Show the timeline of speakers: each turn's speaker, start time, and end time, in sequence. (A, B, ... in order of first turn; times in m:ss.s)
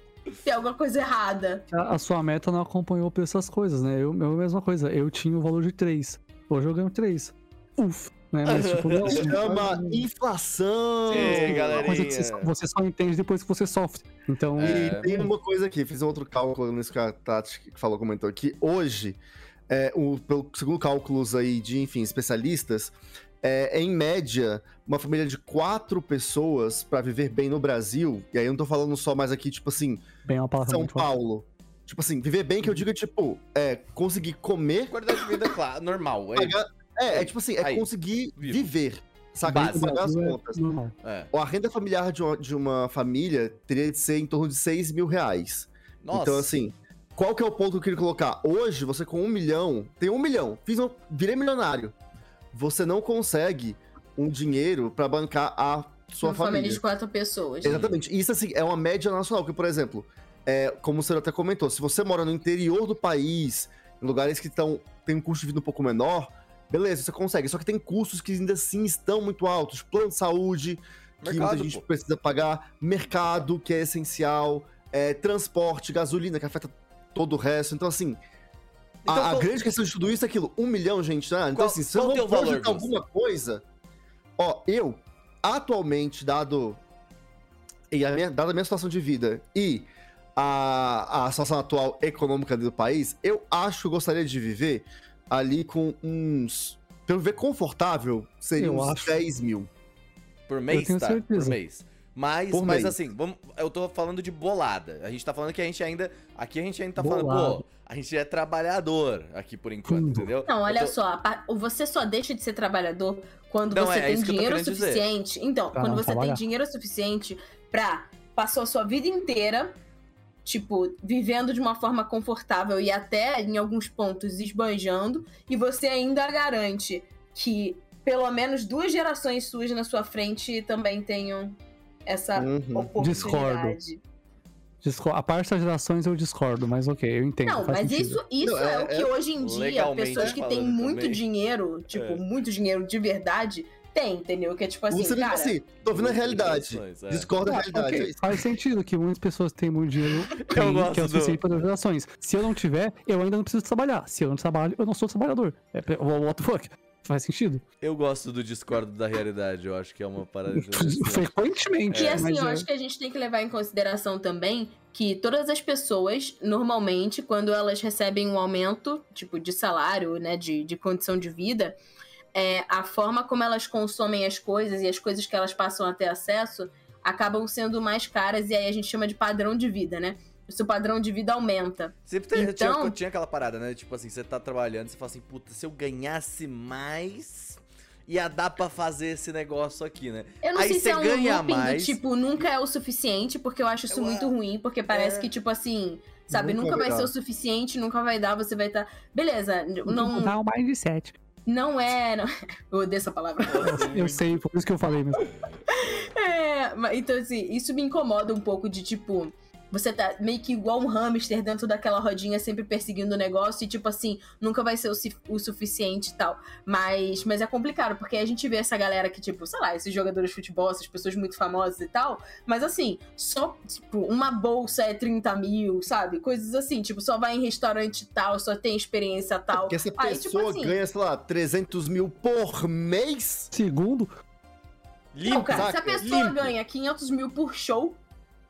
0:00.4-0:01.7 A
0:01.7-0:10.0 B
0:08.4-0:09.4 C
0:09.1-0:11.9 D
0:11.1-0:12.5 C
0:11.1-0:15.3 B
0:14.6-0:15.1 C
0:14.6-0:30.0 D
0:30.2-0:31.1 B
0:30.6-0:35.0 D
0:34.9-0:37.9 C
0:36.4-0:40.6 D
0:38.4-0:38.7 C
0:39.5-0:40.9 B
0:39.5-0:39.8 C
0:41.0-0:41.3 C
0:41.3-0:51.9 D
0:46.0-0:46.6 C
0:52.5-0:56.8 D
0:56.2-0:57.8 A
0:57.6-1:18.2 D
0:57.6-0:58.0 C
1:11.2-1:11.8 C
1:19.0-1:19.6 C
1:19.1-1:23.6 D
1:21.5-1:23.0 C
1:24.4-1:26.8 D
1:27.9-1:39.7 D
1:38.6-1:39.2 B
1:40.5-1:50.9 C
1:40.7-1:41.6 B
1:42.5-1:43.0 D
1:47.0-1:47.6 B
1:49.9-1:50.3 B
1:50.5-1:59.8 A
1:53.7-1:55.0 C
1:55.8-1:56.4 B
2:00.4-2:14.0 A
2:12.4-2:13.1 D
2:13.0-2:13.8 B
2:14.8-2:18.2 B
2:17.4-2:25.6 A
2:18.4-2:19.1 D
2:19.4-2:21.2 C
2:21.9-2:22.2 C
2:24.9-2:28.4 D
2:25.8-2:27.4 C
2:27.4-2:37.6 B
2:30.4-2:31.4 C
2:37.8-2:41.3 C
2:40.5-2:42.7 B
2:41.9-2:42.3 C
2:41.9-2:51.8 A
2:52.4-3:03.0 A
3:02.1-3:12.0 C
3:10.4-3:20.4 A
3:13.9-3:14.3 C
3:14.9-3:15.3 C
3:16.3-3:17.1 D
3:19.9-3:21.2 B
3:21.5-3:23.9 A
3:23.4-3:24.4 C
3:23.6-3:25.3 B
3:25.3-3:25.6 C
3:25.7-3:50.8 A
3:49.5-3:53.5 D
3:53.5-3:54.1 B
3:55.1-3:56.5 C
3:55.2-3:58.0 A
3:55.5-3:56.1 D